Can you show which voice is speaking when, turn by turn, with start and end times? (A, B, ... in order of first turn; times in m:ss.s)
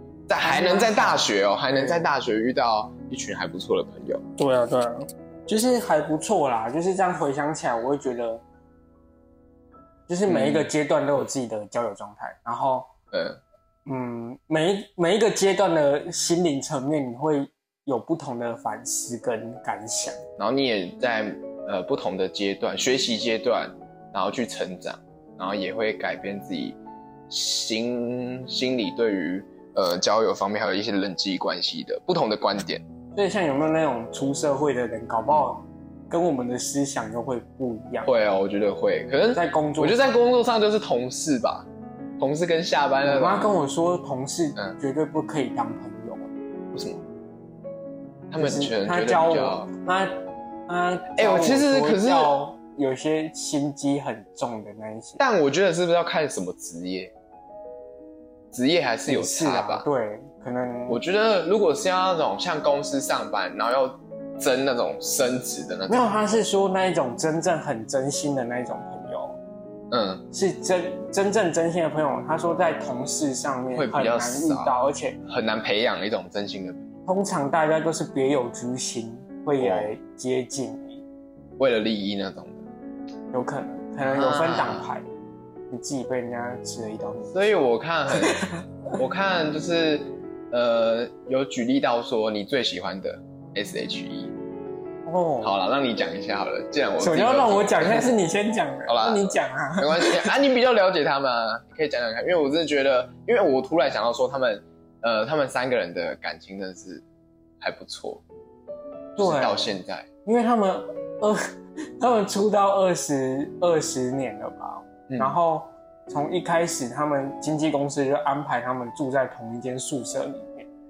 0:00.3-0:04.2 A
0:00.4-0:02.1 B
0:04.4-0:08.4 B
0:10.1-0:12.9 B
0:10.3-0:10.7 A
0:13.1-0:13.4 A
0:13.9-0:20.2 B
0:20.4-0:26.8 A
0:27.3-0:32.8 A
0:33.1-0:38.1 B
0:38.0-0:41.7 A
0:39.3-0:40.1 B
0:42.2-0:43.6 A
0:43.0-0:46.3 B
0:46.7-0:47.0 A
0:48.3-0:49.7 A
0:48.4-0:50.1 B
0:50.7-0:55.2 B
0:51.1-0:52.4 A
0:55.2-0:57.1 A
0:58.5-0:59.9 A
0:59.1-1:01.0 B
1:00.9-1:06.4 A
1:05.9-1:09.4 B
1:09.9-1:10.2 A
1:10.3-1:15.2 B
1:13.7-1:16.8 A
1:17.1-1:21.0 B
1:19.6-1:19.9 A
1:21.6-1:22.6 A
1:23.3-1:25.1 B
1:24.0-1:24.9 A
1:25.7-1:27.5 B
1:27.3-1:34.3 A
1:28.1-1:28.6 B
1:35.1-1:35.5 B
1:35.4-1:38.1 A
1:37.0-1:40.3 B
1:38.9-1:47.0 A
1:47.6-1:48.2 A
1:49.2-1:50.1 A
1:49.2-1:49.7 B
1:50.2-2:00.7 B
1:55.1-1:55.4 A